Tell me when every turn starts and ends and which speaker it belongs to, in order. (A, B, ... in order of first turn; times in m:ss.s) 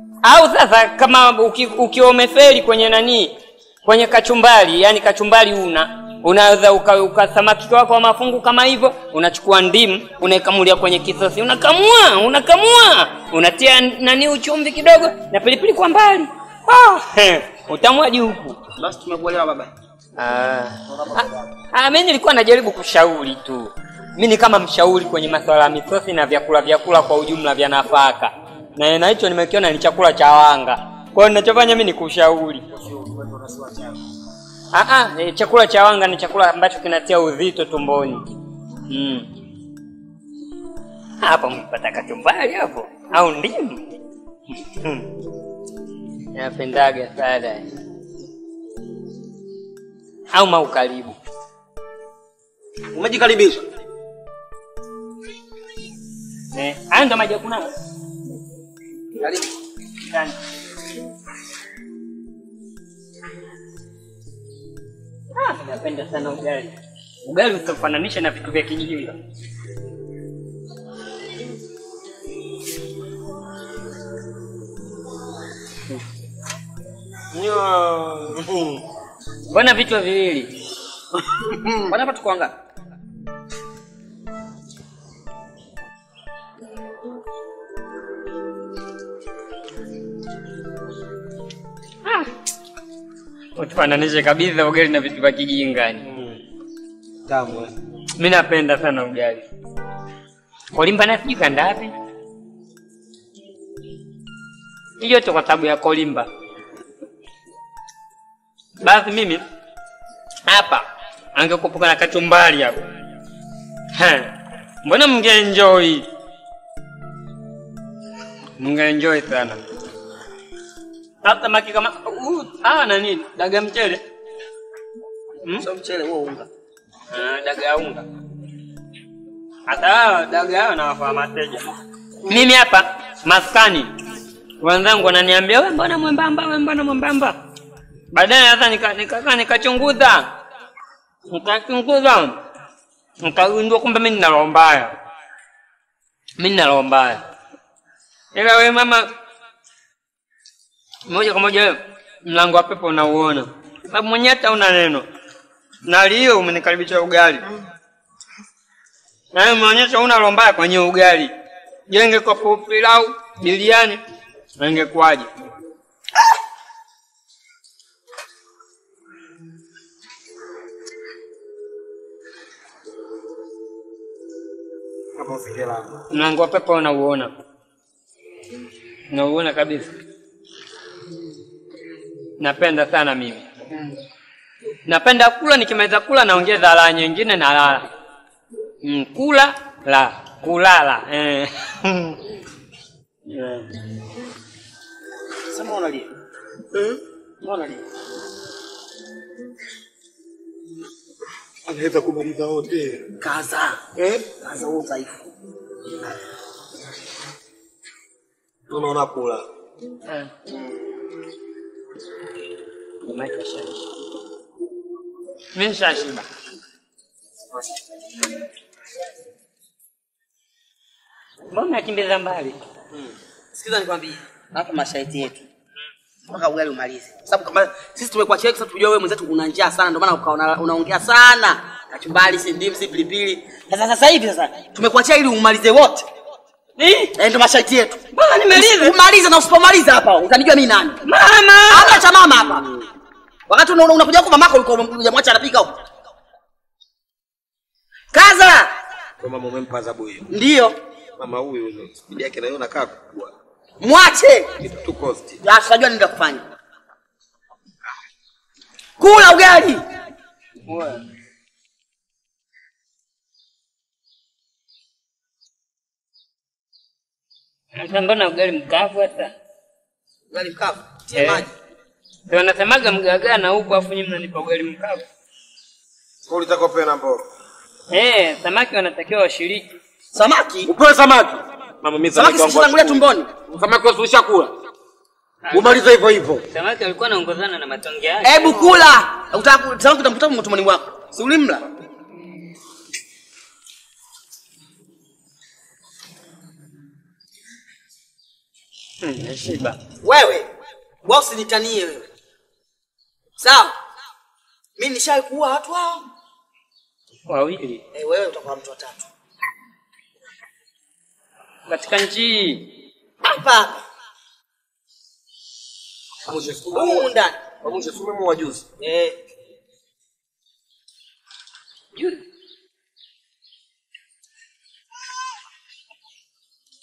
0:00.2-0:18.6 A
0:18.8-0:19.7 B
0:20.3-0:20.9 C
0:21.1-0:32.6 A
0:33.0-0:33.9 C
0:34.7-0:38.2 A
0:38.9-0:39.3 A
0:41.2-0:43.9 A
0:46.4-0:47.7 A
0:50.3-0:51.2 A
0:53.0-0:53.6 B
0:56.6-0:57.7 A
0:59.2-0:59.4 B
1:05.4-1:06.7 A
1:07.2-1:09.1 A
1:17.3-1:18.6 C
1:19.5-1:20.5 A
1:21.9-1:22.5 B
1:33.6-1:36.0 A
1:37.3-1:37.7 C
1:38.2-1:39.4 A
1:40.7-1:41.9 A
1:45.0-1:46.3 A
1:48.8-1:49.4 A
1:50.5-1:50.8 A
1:51.4-1:52.8 A
1:54.0-1:54.3 A
1:54.8-1:56.0 A
1:58.6-1:59.6 A
2:01.2-2:04.0 A
2:05.6-2:06.4 B
2:07.1-2:08.0 A
2:09.7-2:11.7 A
2:12.2-2:13.9 A
2:14.6-2:17.4 A
2:18.1-2:20.3 A
2:21.3-2:22.4 A
2:23.2-2:24.9 A
2:26.4-2:27.2 A
2:28.3-2:29.1 A
2:31.1-2:35.0 A
2:35.9-2:37.4 A
2:39.3-2:41.3 A
2:41.9-2:44.0 A
2:44.6-2:45.3 A
2:55.2-2:55.9 C
2:56.1-2:57.3 A
2:59.1-2:59.9 A
3:02.4-3:03.4 A
3:04.9-3:07.9 A
3:08.8-3:12.1 A
3:13.3-3:13.6 A
3:15.5-3:16.1 B
3:17.4-3:17.8 B
3:21.7-3:23.0 C
3:23.2-3:25.1 B
3:28.7-3:29.4 C
3:33.1-3:33.8 A
3:35.6-3:36.2 A
3:41.5-3:42.6 A
3:42.9-3:45.4 B
3:46.3-3:56.0 B
3:56.8-3:57.1 A
3:57.2-4:01.0 B
3:58.1-3:58.9 A
4:01.0-4:02.0 A
4:01.7-4:02.8 B
4:03.5-4:05.7 B
4:08.1-4:08.7 B
4:09.2-4:10.3 C
4:10.3-4:10.8 B
4:11.2-4:13.3 C
4:13.8-4:14.5 B
4:14.6-4:15.4 C
4:15.4-4:16.4 B
4:19.0-4:19.8 B
4:20.7-4:21.0 A
4:27.7-4:29.3 A
4:30.3-4:31.5 B
4:31.1-4:31.4 A
4:32.3-4:35.0 A
4:36.3-4:37.2 C
4:37.9-4:39.7 A
4:40.1-4:40.7 B
4:40.6-4:44.5 C
4:42.2-4:43.3 B
4:45.4-4:45.8 A
4:45.5-4:46.4 C
4:46.5-4:48.7 A
4:48.2-4:51.6 B
4:59.0-4:59.8 A
5:00.0-5:00.5 B
5:01.0-5:02.0 B
5:03.4-5:03.7 B
5:04.8-5:06.0 B
5:07.3-5:07.8 A
5:07.9-5:09.1 B
5:11.7-5:12.6 A
5:13.2-5:13.7 B
5:16.3-5:17.4 B
5:16.3-5:18.6 C
5:18.8-5:19.1 B